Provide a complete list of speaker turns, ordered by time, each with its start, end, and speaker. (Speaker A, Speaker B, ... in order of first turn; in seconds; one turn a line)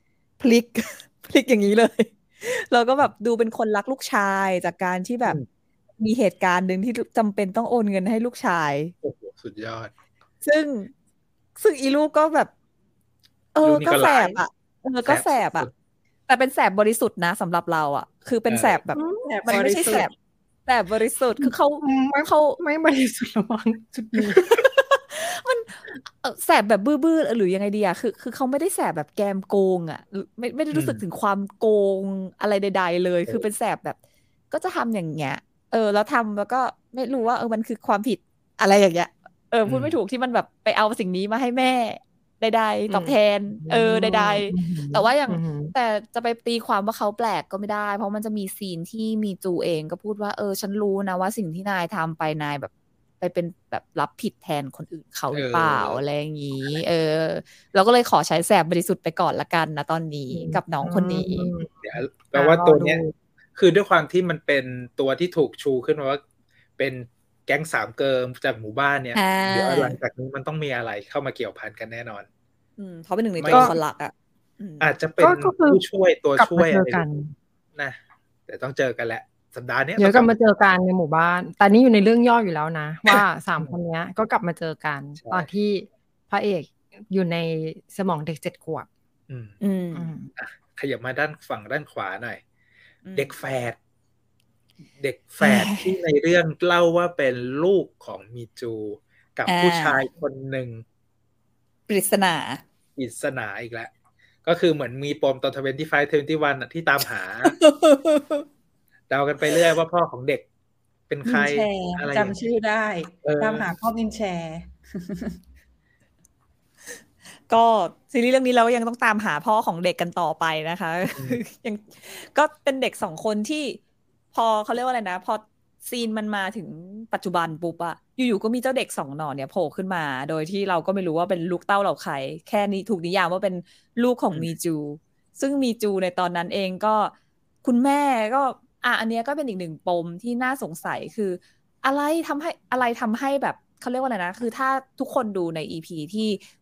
Speaker A: 0.4-5.4
Speaker A: 6.0-8.9
Speaker B: 9.0-9.9
Speaker A: 10.4-10.9
Speaker A: 11.6-12.5
Speaker A: 13.5-15.7
Speaker B: 13.6-14.4
Speaker B: 15.1-15.7
Speaker A: 16.3-20.1
Speaker B: 18.5-18.8
Speaker C: 18.9-19.3
Speaker D: 19.2-20.1
Speaker A: 20.6-22.6
Speaker C: 21.4-24.4
Speaker A: 24.4-34.0
Speaker B: 30.7-31.0
Speaker A: 34.5-61.5
Speaker B: 39.6-40.0
Speaker C: 42.9-45.7
Speaker B: 55.3-56.0
Speaker C: 60.3-63.1
Speaker B: 61.8-63.0
Speaker B: 63.5-66.2
Speaker B: 66.8-72.3
Speaker A: 69.1-70.0
Speaker A: 72.8-74.9
Speaker B: 73.4-73.7
Speaker C: 73.5-73.8
Speaker B: 74.8-77.0
Speaker C: 75.2-75.8
Speaker C: 76.4-77.3
Speaker B: 77.8-80.3
Speaker C: 80.0-88.9
Speaker B: 83.1-83.7
Speaker B: 85.2-85.5
Speaker B: 89.3-89.6
Speaker A: 89.6-90.1
Speaker C: 89.9-90.3
Speaker B: 90.3-92.4
Speaker A: 93.0-93.3
Speaker B: 93.2-93.8
Speaker B: 95.0-100.8
Speaker A: 95.4-95.9
Speaker A: 99.5-100.0
Speaker A: 101.9-102.6
Speaker B: 103.0-103.9
Speaker B: 104.4-107.5
Speaker A: 107.5-108.5
Speaker B: 109.1-110.4
Speaker B: 111.1-112.3
Speaker A: 111.2-112.0
Speaker D: 112.1-115.4
Speaker B: 113.2-113.7
Speaker A: 117.5-123.8
Speaker B: 121.1-121.4
Speaker A: 124.3-137.1
Speaker A: 137.6-146.4